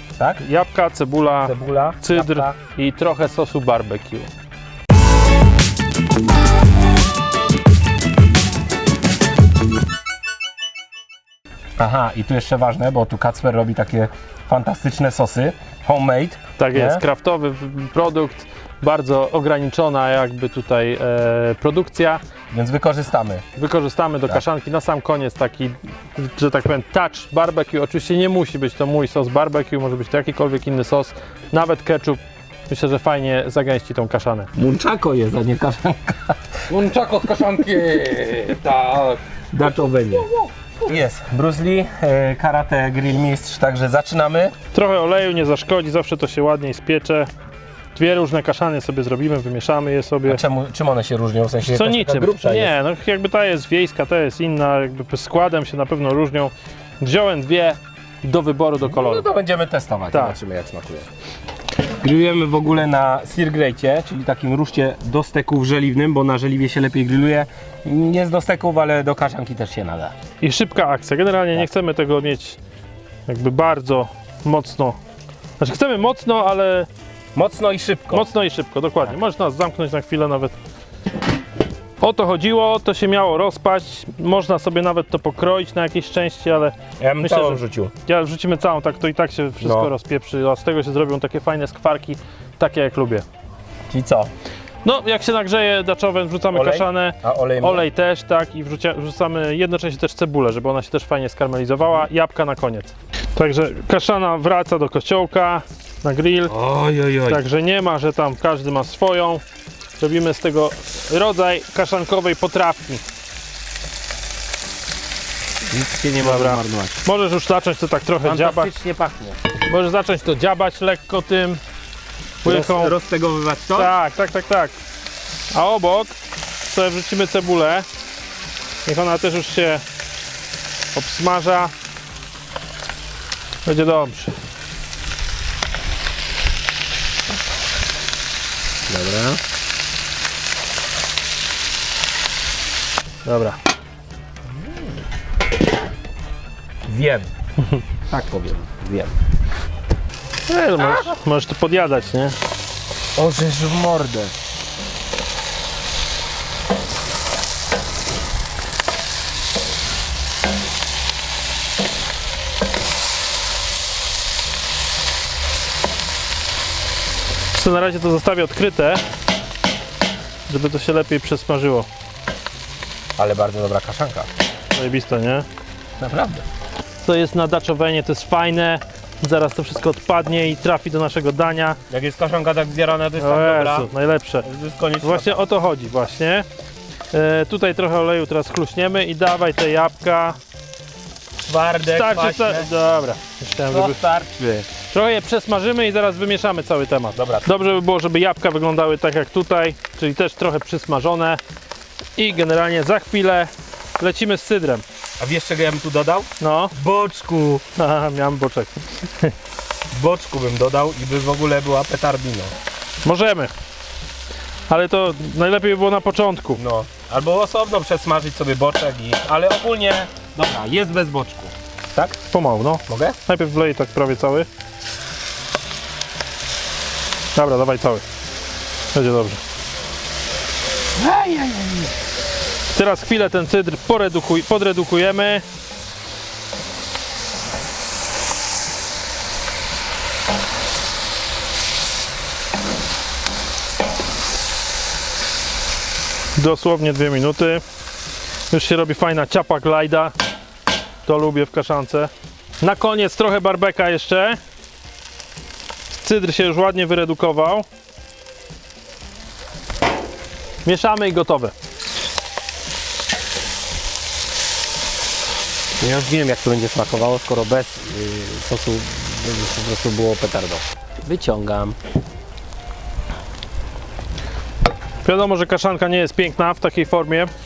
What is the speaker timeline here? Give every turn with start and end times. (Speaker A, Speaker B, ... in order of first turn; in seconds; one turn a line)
Speaker A: 0.4-4.3
Speaker B: 1.4-2.6
Speaker B: 11.8-17.0
Speaker A: 16.6-22.2
Speaker B: 22.5-23.4
Speaker A: 23.6-34.5
Speaker B: 34.5-36.8
Speaker C: 36.7-39.2
Speaker B: 39.5-44.6
Speaker A: 44.7-47.3
Speaker A: 48.0-50.4
Speaker B: 50.3-52.8
Speaker A: 51.6-59.3
Speaker B: 58.8-61.1
Speaker A: 60.1-60.4
Speaker B: 62.0-70.1
Speaker A: 70.4-72.6
Speaker A: 73.3-75.0
Speaker A: 75.6-76.9
Speaker B: 77.3-78.3
Speaker A: 78.1-80.5
Speaker A: 82.0-93.2
Speaker B: 87.0-87.9
Speaker B: 89.6-89.9
Speaker B: 93.9-94.3
Speaker A: 94.8-106.5
Speaker B: 96.5-97.8
Speaker B: 106.5-107.4
Speaker A: 107.3-109.4
Speaker A: 110.0-113.0
Speaker B: 115.7-117.0
Speaker A: 116.2-118.7
Speaker B: 118.2-119.4
Speaker A: 119.7-121.6
Speaker A: 122.4-123.0
Speaker B: 122.4-123.9
Speaker A: 123.8-124.8
Speaker A: 125.5-127.8
Speaker A: 128.9-129.8
Speaker A: 130.9-131.7
Speaker A: 133.7-134.3
Speaker B: 138.9-139.4
Speaker A: 143.2-143.6
Speaker B: 146.9-147.3
Speaker B: 148.1-149.1
Speaker A: 150.5-152.4
Speaker B: 150.8-151.1
Speaker B: 153.2-154.3
Speaker A: 167.5-169.0
Speaker A: 170.5-171.9
Speaker B: 173.2-174.3
Speaker A: 174.7-175.5
Speaker B: 176.0-176.5
Speaker A: 177.0-181.8
Speaker B: 181.9-183.9
Speaker A: 183.2-184.5
Speaker B: 184.4-185.4
Speaker A: 185.0-186.4
Speaker A: 187.1-190.4
Speaker B: 191.4-192.7
Speaker A: 191.8-194.0
Speaker B: 193.7-194.7
Speaker A: 194.8-201.4
Speaker B: 197.1-197.5
Speaker A: 202.2-204.8
Speaker B: 205.2-207.6
Speaker A: 206.4-206.8
Speaker A: 207.8-209.3
Speaker B: 209.9-212.5
Speaker A: 213.0-213.5
Speaker A: 214.7-216.6
Speaker B: 216.6-222.2
Speaker A: 222.3-224.5
Speaker B: 222.9-223.2
Speaker A: 227.3-228.0
Speaker A: 228.9-229.4
Speaker B: 231.0-231.9
Speaker A: 232.7-235.4
Speaker A: 246.4-247.6
Speaker A: 248.5-250.1
Speaker A: 251.1-254.4
Speaker A: 255.9-257.7
Speaker A: 260.6-261.5
Speaker B: 265.8-271.8
Speaker A: 275.0-277.3